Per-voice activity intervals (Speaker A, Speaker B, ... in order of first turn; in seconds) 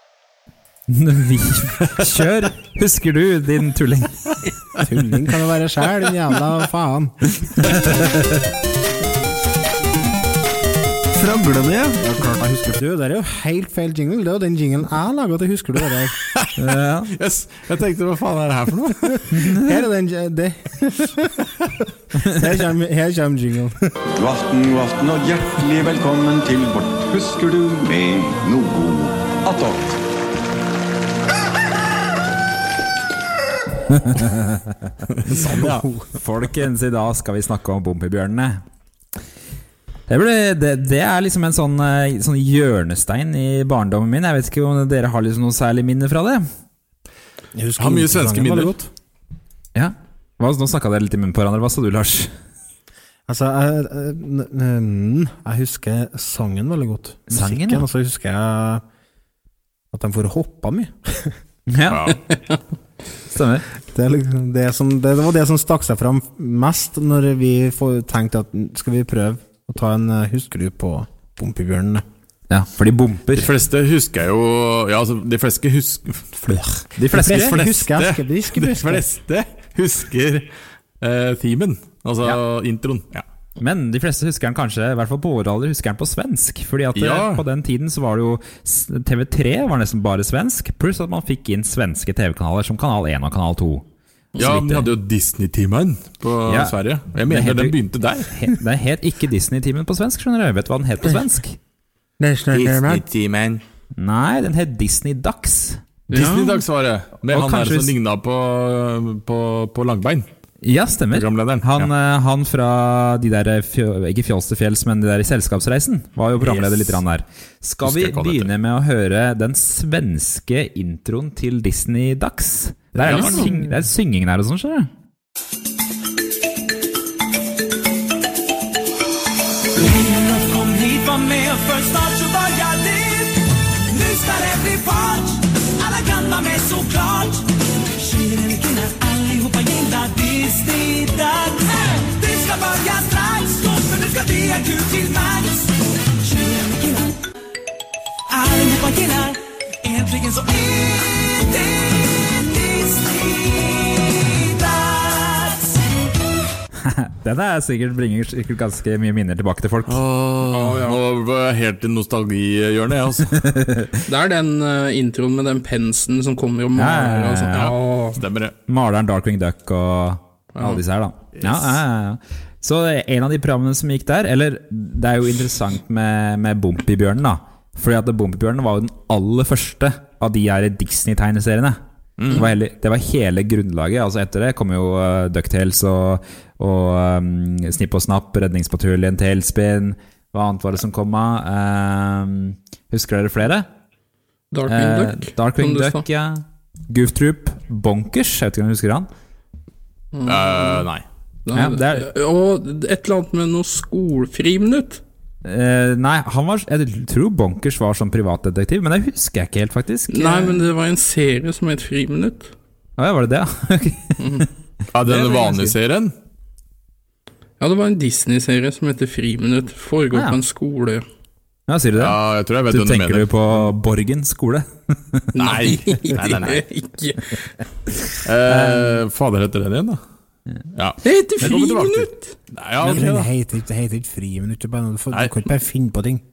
Speaker A: 0.9-4.3, 7.6-8.3, 16.6-17.1, 19.3-19.8, 33.9-38.6, 40.1-46.5, 49.7-52.3, 57.3-57.8, 61.7-62.1, 63.3-63.6, 72.5-73.5, 77.0-77.6, 83.6-93.8, 94.4-94.9, 96.4-97.8, 98.3-101.6, 104.0-105.8, 107.3-107.9, 110.6-124.9, 156.8-160.0, 163.4-164.0, 166.7-167.8, 168.7-193.7, 194.7-199.1, 201.5-202.1, 205.4-210.7, 213.0-214.5, 215.1-215.6, 220.1-220.4, 221.7-225.6, 228.4-229.0
Speaker B: 4.8-7.2, 11.1-16.1, 19.3-21.3, 22.1-23.8, 47.5-48.9, 53.3-58.8, 59.9-61.4, 63.9-72.0, 77.1-79.0, 102.2-103.0, 232.8-236.2
Speaker C: 17.1-19.3, 35.2-35.7, 47.8-48.7, 61.9-62.2, 73.3-83.2, 86.9-87.4, 94.4-98.5, 102.5-103.6, 106.1-110.3, 111.1-111.9, 116.4-117.0, 117.8-118.5, 123.0-123.6, 159.9-163.5, 167.5-168.5, 171.4-171.7, 182.2-182.5, 200.2-201.0, 214.9-216.1, 222.0-223.3, 225.3-226.7, 228.2-230.0, 230.7-233.3
Speaker D: 24.1-30.0
Speaker E: 106.2-106.5, 160.5-161.0, 164.1-168.2, 194.5-196.0, 200.1-200.9, 201.4-205.0, 210.1-212.5, 214.2-214.5, 217.6-221.0, 225.3-227.4, 231.0-232.3
Speaker F: 129.7-147.2, 148.3-155.8